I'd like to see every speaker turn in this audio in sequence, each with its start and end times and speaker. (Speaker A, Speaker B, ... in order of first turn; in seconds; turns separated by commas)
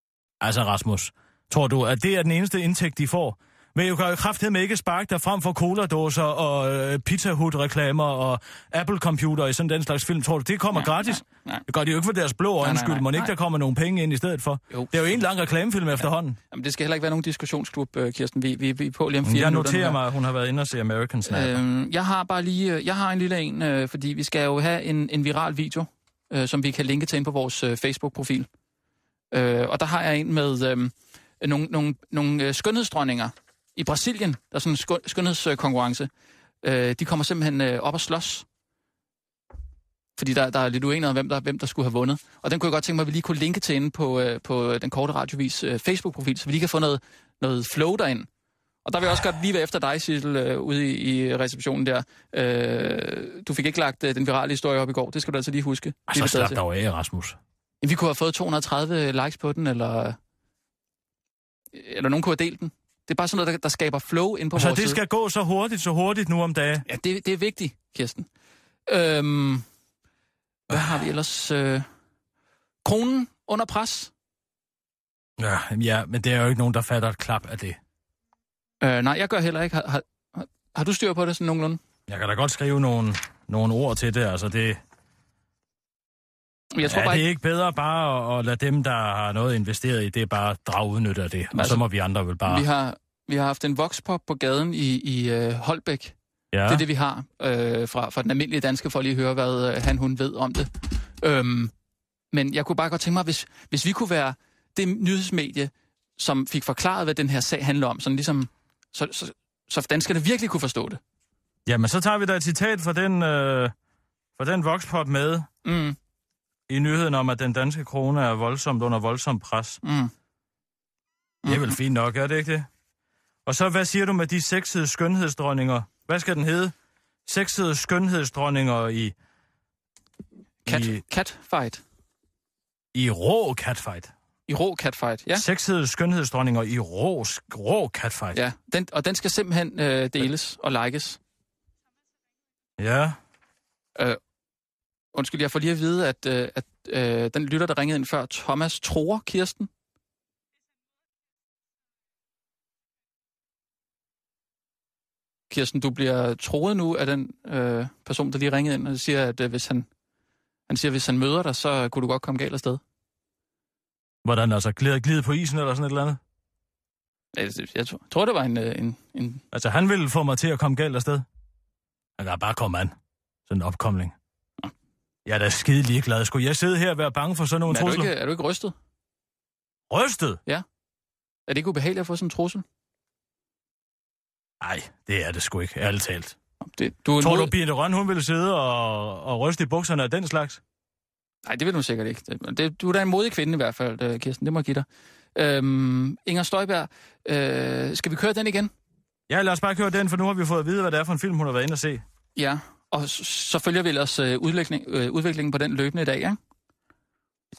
Speaker A: 0.4-16.4, Speaker B: 10.7-11.7, Speaker B: 12.6-13.3, Speaker B: 14.7-15.2, Speaker B: 16.0-20.0, Speaker A: 19.2-21.6, Speaker B: 21.3-28.5, Speaker B: 29.3-36.1, Speaker B: 36.6-38.5, Speaker B: 40.2-48.3, Speaker B: 48.9-56.6, Speaker A: 56.1-57.4, Speaker B: 57.8-60.2, Speaker B: 61.7-65.0, Speaker A: 64.5-66.9, Speaker B: 66.9-68.3, Speaker B: 68.9-69.7, Speaker B: 70.7-71.9, Speaker B: 72.8-74.1, Speaker A: 75.4-77.8, Speaker B: 78.8-81.8, Speaker A: 82.1-84.8, Speaker B: 86.7-87.3, Speaker A: 86.8-92.7, Speaker B: 91.5-91.8, Speaker B: 92.4-96.2, Speaker A: 96.5-96.8, Speaker B: 96.7-101.7, Speaker B: 102.3-111.0, Speaker A: 111.7-113.7, Speaker A: 114.4-115.5, Speaker B: 115.7-116.0, Speaker A: 116.7-119.8, Speaker B: 119.8-120.1, Speaker B: 121.4-121.8, Speaker A: 121.5-122.7, Speaker A: 123.5-126.7, Speaker A: 127.3-129.1, Speaker B: 130.7-131.8, Speaker A: 130.7-131.0, Speaker A: 132.9-134.1, Speaker B: 134.5-135.4, Speaker A: 135.3-138.4, Speaker B: 138.3-141.2, Speaker A: 142.8-143.2, Speaker B: 145.1-149.7, Speaker B: 155.5-159.9, Speaker B: 160.7-162.8, Speaker A: 164.2-166.2, Speaker B: 167.3-169.4, Speaker A: 169.5-171.2, Speaker A: 172.2-172.9, Speaker A: 173.5-174.2, Speaker A: 175.3-178.1, Speaker B: 177.7-178.7, Speaker A: 179.9-180.4, Speaker B: 181.5-182.7, Speaker A: 184.6-186.4, Speaker B: 186.6-187.5, Speaker A: 187.2-190.6, Speaker B: 191.5-198.7, Speaker A: 199.3-202.0, Speaker B: 202.4-206.4